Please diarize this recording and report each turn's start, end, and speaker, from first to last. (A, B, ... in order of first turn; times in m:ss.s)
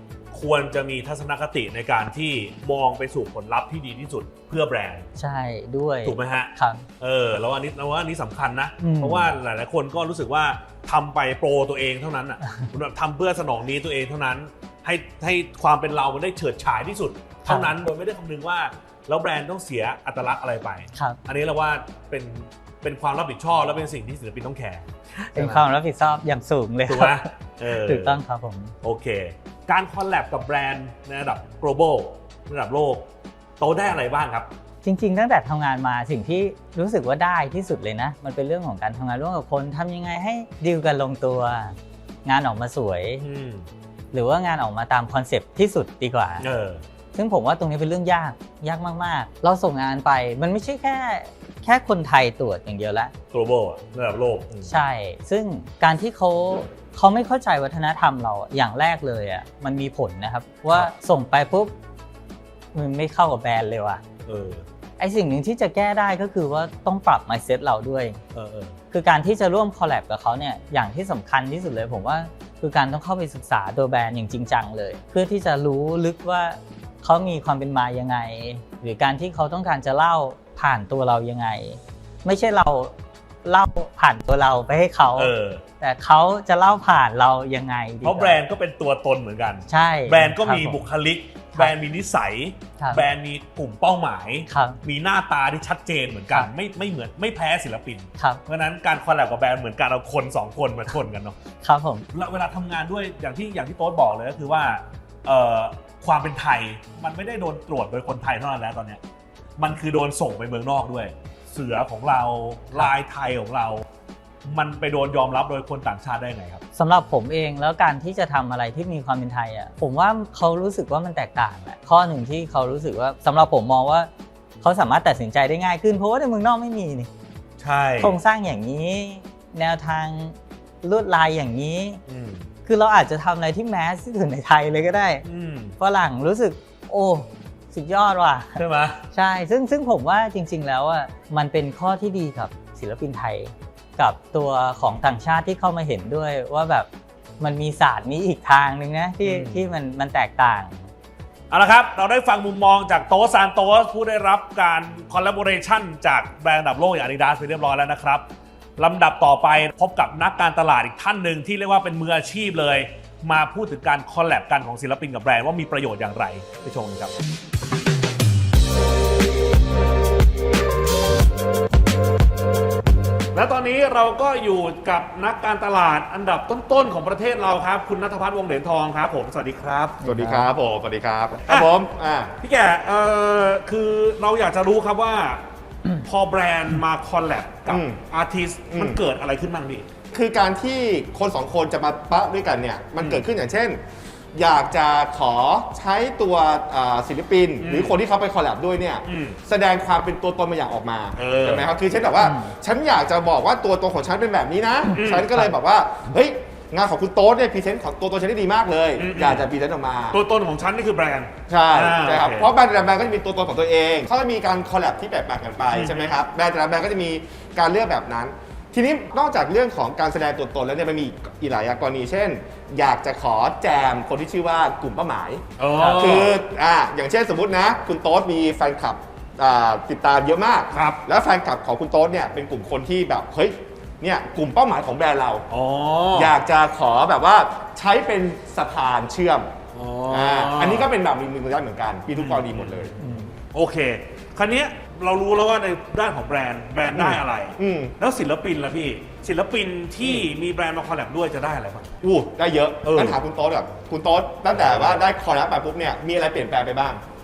0:00.3-0:05.1 A
0:05.2-0:06.8 B
0:06.0-0:25.6 A
0:08.8-0:09.3 B
0:17.5-0:17.7 B
0:20.9-0:21.2 B
0:25.2-0:28.7 B
0:26.9-0:28.2 A
0:28.8-0:33.0 A
0:33.6-0:34.5 A
0:34.8-0:43.3 B
0:43.2-0:43.7 A
0:44.1-0:46.5 B
0:46.4-0:46.8 A
0:47.1-0:53.1 B
0:53.3-0:54.8 A
0:54.6-1:01.7 B
1:02.7-1:04.0 B
1:04.2-1:04.6 A
1:05.0-1:08.2 B
1:08.3-1:08.8 A
1:08.9-1:28.4 B
1:25.2-1:25.6 A
1:28.0-1:41.4 A
1:29.7-1:30.8 B
1:32.8-1:33.0 B
1:34.5-1:34.8 B
1:41.6-1:42.1 B
1:42.1-1:49.0 A
1:49.6-1:53.8 A
1:54.4-1:56.6 A
1:56.7-2:04.1 B
2:04.6-2:07.1 B
2:07.6-2:08.2 A
2:08.0-2:12.0 B
2:12.1-2:12.5 A
2:12.6-2:15.2 B
2:15.2-2:15.8 A
2:15.8-2:18.6 B
2:18.6-2:19.0 A
2:19.1-2:26.9 B
2:27.4-2:30.9 B
2:29.2-2:29.7 A
2:31.5-2:38.2 A
2:38.8-2:47.1 A
2:53.3-3:00.1 A
3:00.0-3:00.5 B
3:00.0-3:02.3 C
3:02.4-3:05.4 A
3:06.0-3:09.9 A
3:07.7-3:08.0 C
3:08.7-3:09.0 C
3:10.1-3:13.8 C
3:13.0-3:13.2 A
3:14.3-3:30.2 C
3:17.6-3:18.0 A
3:19.0-3:19.4 A
3:21.1-3:21.7 A
3:22.2-3:22.5 B
3:24.9-3:25.3 A
3:29.0-3:29.5 A
3:30.1-3:32.5 A
3:31.5-3:55.4 C
3:35.7-3:36.2 A
3:45.6-3:46.4 A
3:45.8-3:46.1 B
3:50.7-3:51.0 A
3:55.5-3:56.3 A
3:56.1-3:59.5 C
3:59.7-4:00.9 A
4:00.1-4:02.9 C
4:02.1-4:02.9 A
4:03.0-4:03.3 B
4:03.5-4:11.9 A
4:06.9-4:07.9 C
4:12.0-4:17.0 C
4:12.8-4:13.2 A
4:14.5-4:15.1 A